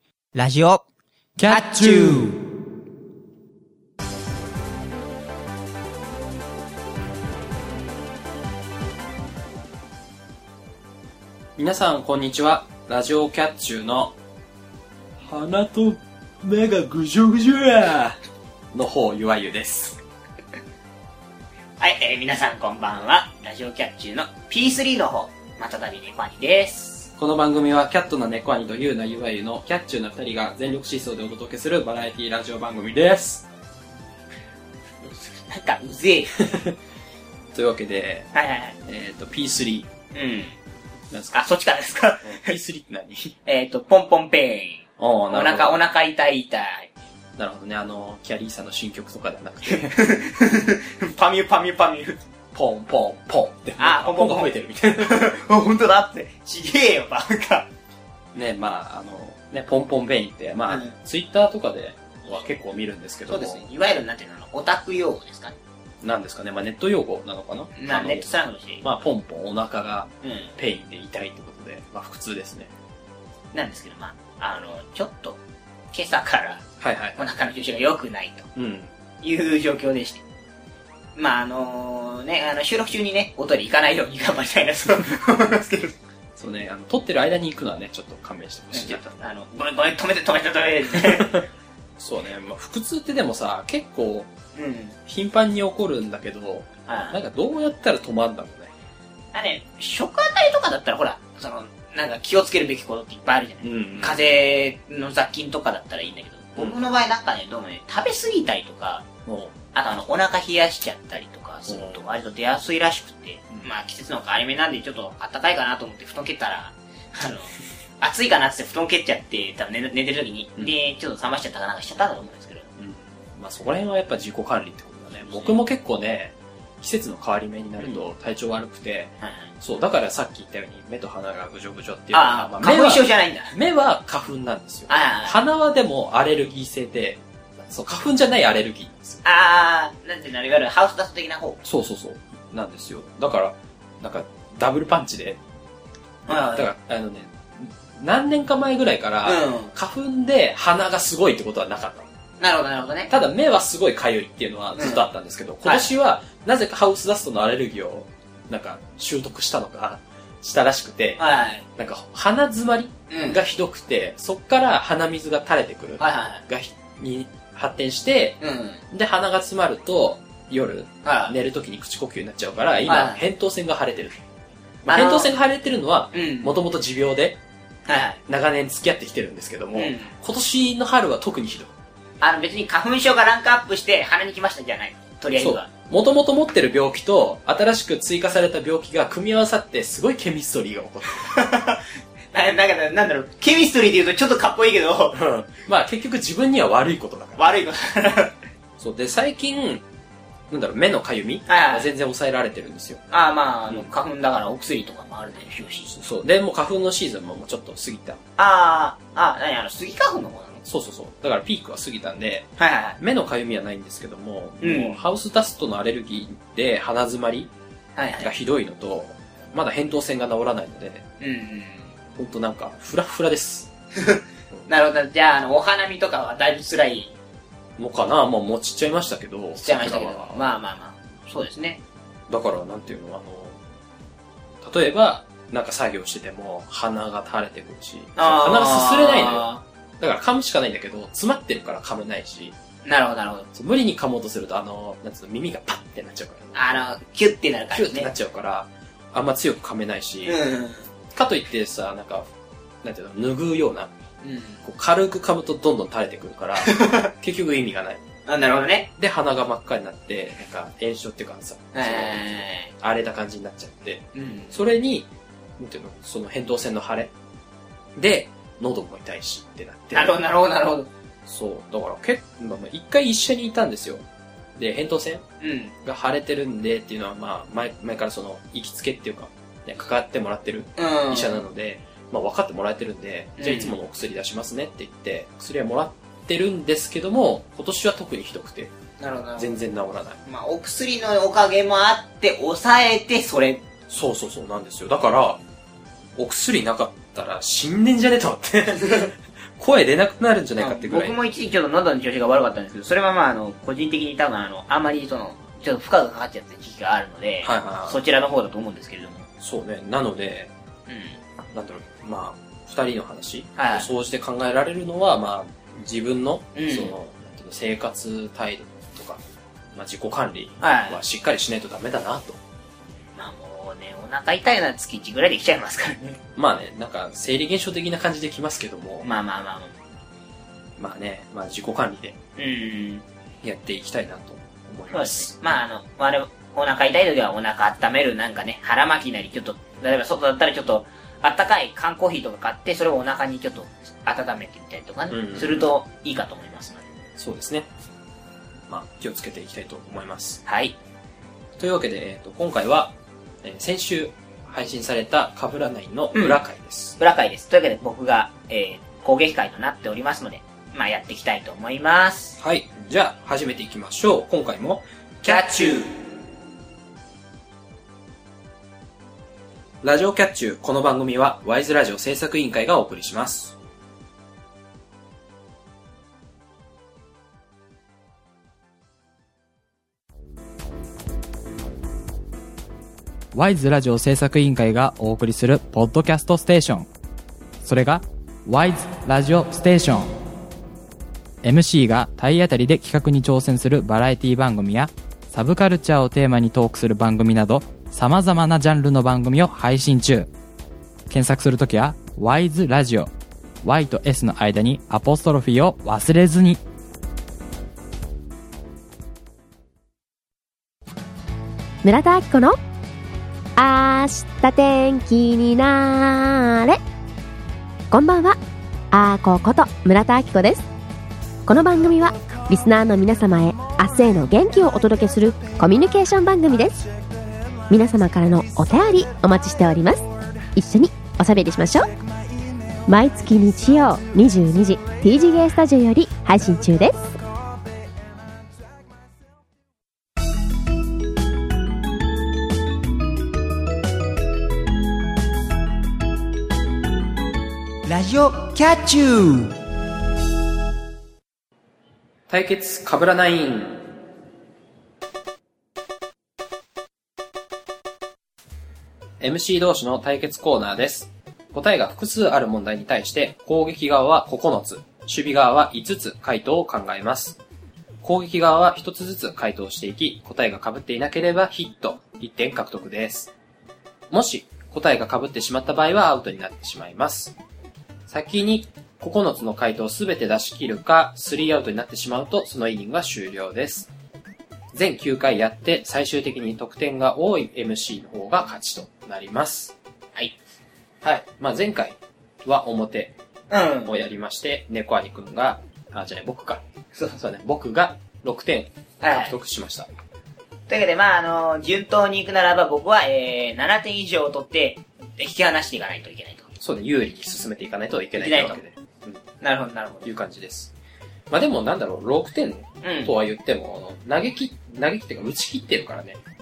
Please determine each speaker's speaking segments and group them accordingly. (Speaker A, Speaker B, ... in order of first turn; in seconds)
Speaker A: 0.4-0.8, 1.5-2.3, 21.8-27.1, 35.0-36.3, 38.3-38.8, 40.1-40.5, 41.3-42.5, 43.5-46.9, 49.6-52.2, 53.8-57.7, 60.7-61.0, 63.3-65.6, 67.8-68.8, 70.2-70.5, 73.5-75.4, 75.9-76.7, 77.2-78.5, 79.2-80.2, 81.2-86.0, 88.7-91.4, 94.5-95.0, 96.9-97.2, 99.3-109.1, 109.7-122.7, 125.3-125.6, 132.1-133.6, 134.9-135.4, 139.2-141.6, 146.3-146.7, 149.2-149.7, 152.4-153.1, 154.8-155.1, 155.7-155.9, 161.2-161.7, 163.1-163.4, 166.0-166.4, 168.4-168.8, 171.1-171.3, 172.9-173.2, 174.9-175.3, 176.1-176.6, 177.9-178.2, 179.8-180.1, 182.2-185.7, 191.3-195.3, 197.4-198.3, 201.5-201.9, 203.1-205.9, 208.4-210.6, 212.6-213.0, 214.6-215.0, 218.0-218.3, 221.2-221.9, 224.0-227.1, 229.6-231.8, 238.2-239.6, 242.8-243.5, 246.6-248.1, 250.2-250.9, 254.2-254.6, 256.6-257.1, 258.3-258.9, 261.7-262.7, 264.1-264.6, 269.9-270.9, 275.4-275.7, 280.8-281.4, 283.4-283.8, 289.0-289.5, 290.2-293.6, 300.6-309.3, 310.9-311.2, 313.6-313.9, 316.6-316.9, 320.6-321.0, 323.2-326.2, 329.0-329.8, 332.4-333.1, 334.9-346.9, 350.5-350.8, 356.1-356.4, 357.0-362.4, 365.2-365.9, 447.9-449.5, 493.5-494.0, 499.0-499.3, 500.7-506.5, 508.2-508.6, 509.4-510.1, 512.8-513.1
Speaker B: 1.4-2.2, 383.3-386.9, 387.6-390.1, 391.4-400.3, 401.1-403.1, 403.6-406.6
Speaker C: 11.6-14.2, 15.2-18.2, 18.7-20.0, 27.2-33.5, 36.4-36.8, 37.5-38.3, 38.9-39.9, 41.1-41.6, 42.2-43.4, 45.0-45.8, 47.4-50.0, 52.5-55.4, 58.3-63.7, 66.0-68.3, 68.8-72.7, 76.8-77.2, 78.5-78.9, 86.4-89.3, 90.9-91.5, 92.0-94.3, 95.1-98.7, 103.6-104.2, 109.3-109.5, 111.7-112.0, 122.8-139.2, 141.6-145.4, 146.3-152.1, 153.1-161.2, 161.8-174.2, 174.8-177.4, 178.3-181.7, 185.4-191.4, 195.1-197.5, 198.8-199.8, 200.5-203.0, 205.9-208.2, 210.7-217.5, 218.2-221.1, 222.2-223.7, 227.8-230.5, 232.3-233.6, 234.6-242.6, 243.5-246.8, 247.7-250.4, 251.1-252.3, 252.8-253.9, 254.6-258.0, 259.0-265.1, 265.6-267.1, 268.0-270.2, 271.3-274.1, 274.6-275.2, 275.8-288.7, 289.4-290.2, 293.9-295.4, 296.2-301.1, 307.4-308.0, 309.4-310.5, 311.5-319.2, 319.7-322.4, 326.4-329.1, 330.8-332.2, 333.4-335.3, 345.1-345.7, 347.2-347.7, 348.7-350.4, 351.6-357.0, 362.4-365.8, 369.8-373.5, 452.3-453.8, 459.2-467.4, 468.0-473.3, 474.1-477.4, 478.1-483.9, 484.7-489.7, 491.0-493.1, 493.9-496.6, 497.2-499.9, 506.6-509.2, 510.0-510.7, 511.3-516.2
Speaker D: 411.8-412.6, 413.6-416.8, 417.9-418.4, 418.9-420.7, 421.5-426.8, 427.7-430.1, 430.6-431.9, 432.9-437.1